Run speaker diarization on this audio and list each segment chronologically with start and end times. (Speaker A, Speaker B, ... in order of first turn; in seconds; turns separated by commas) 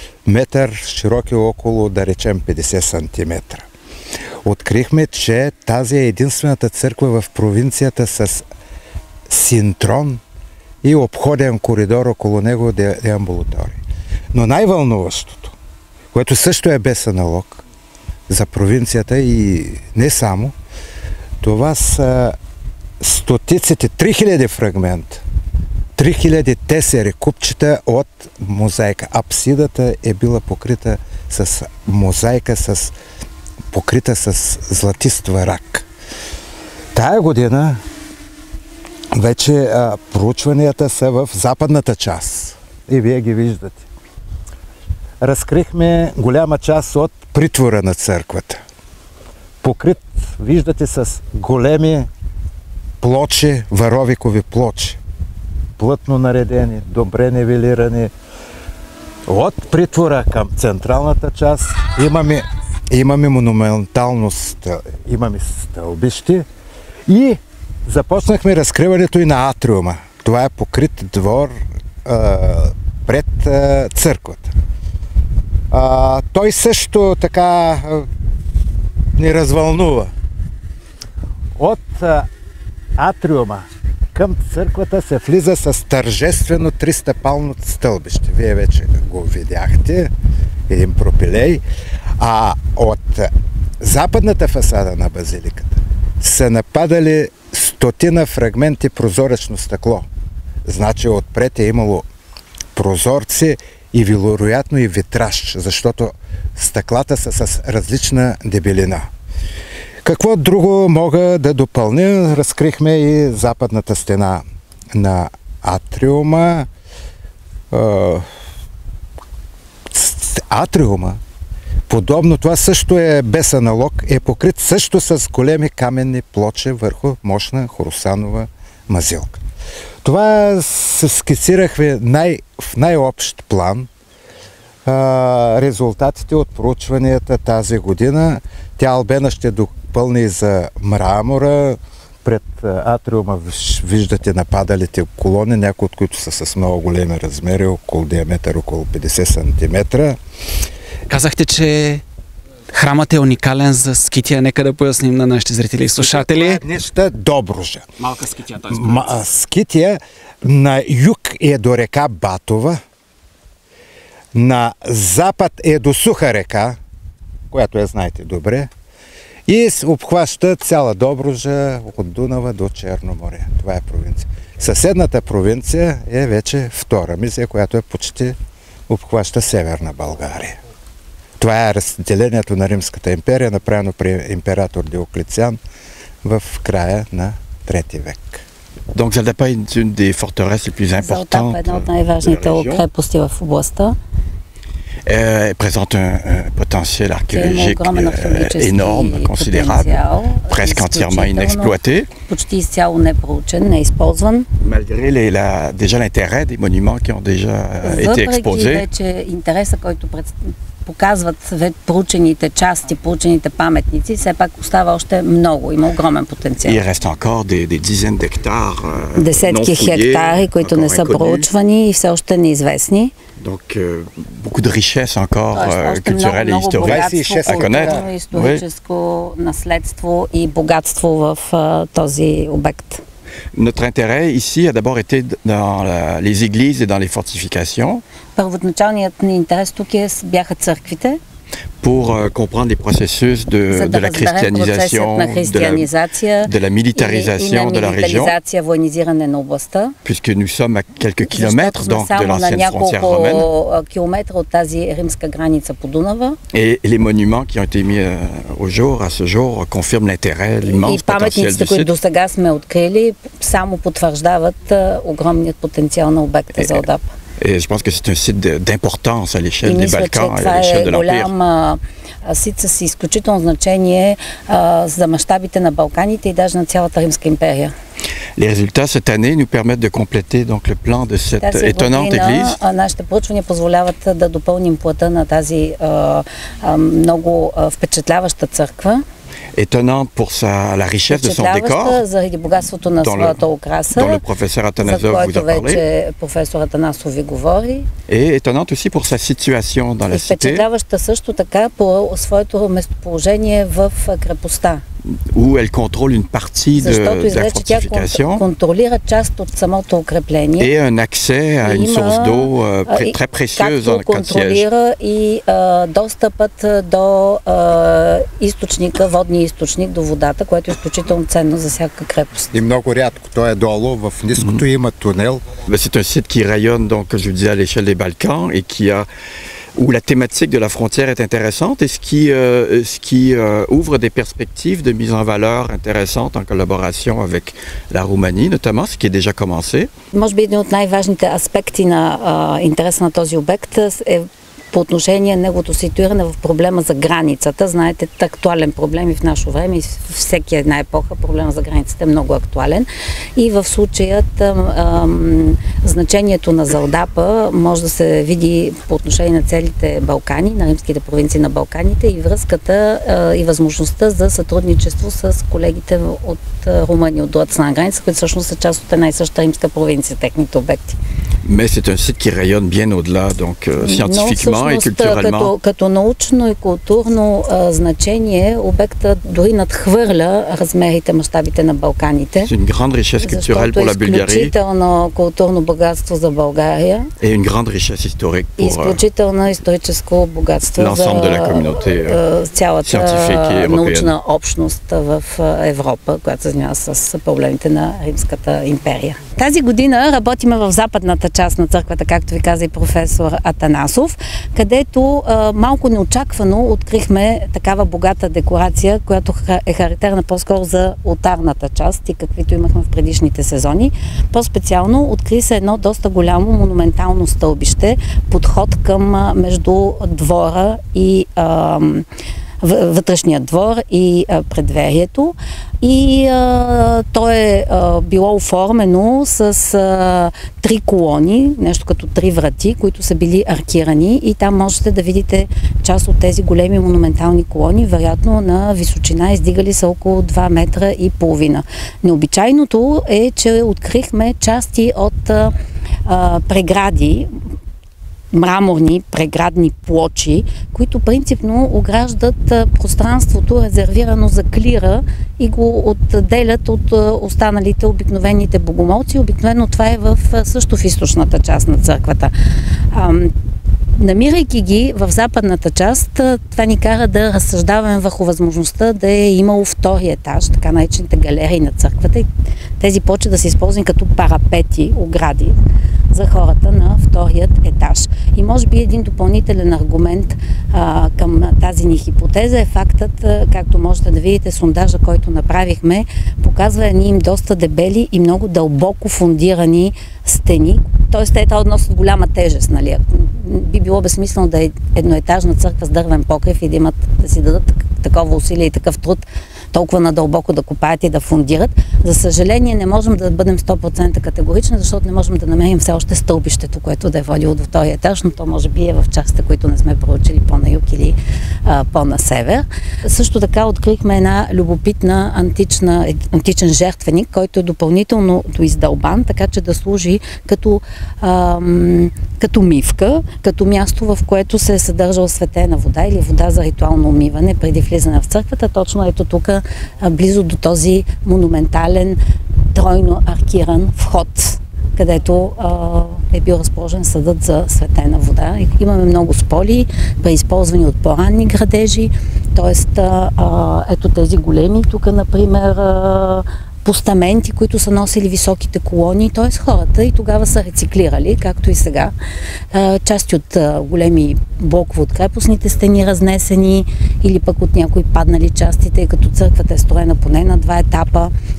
Speaker A: 0.3-3.7, Speaker A: 4.4-8.4, Speaker A: 9.3-10.2, Speaker A: 10.8-15.6, Speaker A: 16.1-17.6, Speaker A: 18.3-20.6, Speaker A: 21.4-22.4, Speaker A: 23.0-25.2, Speaker A: 26.0-32.9, Speaker A: 33.7-35.9, Speaker A: 37.0-37.8, Speaker A: 39.1-43.9, Speaker A: 45.2-48.6, Speaker A: 49.6-52.1, Speaker A: 53.0-55.0, Speaker A: 55.8-58.1, Speaker A: 59.3-66.5, Speaker A: 67.1-71.5, Speaker A: 72.0-74.5, Speaker A: 75.7-78.1, Speaker A: 79.2-80.1, Speaker A: 81.6-82.3, Speaker A: 83.0-90.1, Speaker A: 90.7-91.6, Speaker A: 92.2-100.1, Speaker A: 100.7-102.1, Speaker A: 102.8-109.1, Speaker A: 110.0-116.7, Speaker A: 117.7-118.3, Speaker A: 119.9-121.2, Speaker A: 121.9-129.4, Speaker A: 130.0-133.9, Speaker A: 134.8-150.2, Speaker B: 151.1-152.0, Speaker B: 152.7-156.6, Speaker A: 156.0-162.8, Speaker B: 158.0-159.0, Speaker A: 164.3-166.8, Speaker A: 167.5-168.7, Speaker A: 169.5-178.4, Speaker A: 178.9-180.6, Speaker A: 181.4-185.6, Speaker A: 186.2-188.4, Speaker C: 188.9-192.8, Speaker D: 191.0-194.0, Speaker C: 195.1-202.1, Speaker D: 197.3-204.5, Speaker C: 204.6-208.8, Speaker D: 207.8-210.3, Speaker D: 210.8-216.8, Speaker C: 216.7-221.5, Speaker D: 219.2-223.1, Speaker C: 223.4-228.6, Speaker D: 225.5-233.0, Speaker A: 226.8-228.1, Speaker C: 233.5-238.0, Speaker D: 238.4-241.2, Speaker C: 241.8-245.9, Speaker D: 243.7-249.9, Speaker C: 246.4-248.3, Speaker C: 250.1-253.5, Speaker D: 251.3-256.4, Speaker C: 256.5-261.9, Speaker D: 260.7-267.1, Speaker C: 266.6-266.8, Speaker C: 267.4-271.3, Speaker D: 269.6-277.7, Speaker C: 278.4-282.6, Speaker D: 281.4-289.0, Speaker C: 289.5-292.0, Speaker D: 291.1-294.2, Speaker C: 293.0-293.4, Speaker C: 293.9-295.8, Speaker D: 294.8-297.9, Speaker C: 298.1-300.7, Speaker D: 300.1-304.8, Speaker C: 305.0-308.4, Speaker D: 306.8-310.7, Speaker C: 310.6-314.7, Speaker D: 311.6-322.5, Speaker A: 322.5-325.5, Speaker C: 325.7-329.1, Speaker C: 329.8-339.9, Speaker D: 340.1-371.0, Speaker C: 371.4-375.5, Speaker D: 373.8-382.5, Speaker C: 382.4-384.5, Speaker D: 383.2-387.1, Speaker C: 387.2-389.0, Speaker D: 388.6-422.1, Speaker C: 390.8-392.2, Speaker C: 392.8-394.1, Speaker D: 422.6-447.3, Speaker D: 448.3-462.3, Speaker D: 462.9-463.3, Speaker D: 464.0-472.3, Speaker D: 472.8-475.6, Speaker D: 476.1-532.2, Speaker D: 532.7-552.1, Speaker D: 552.7-561.3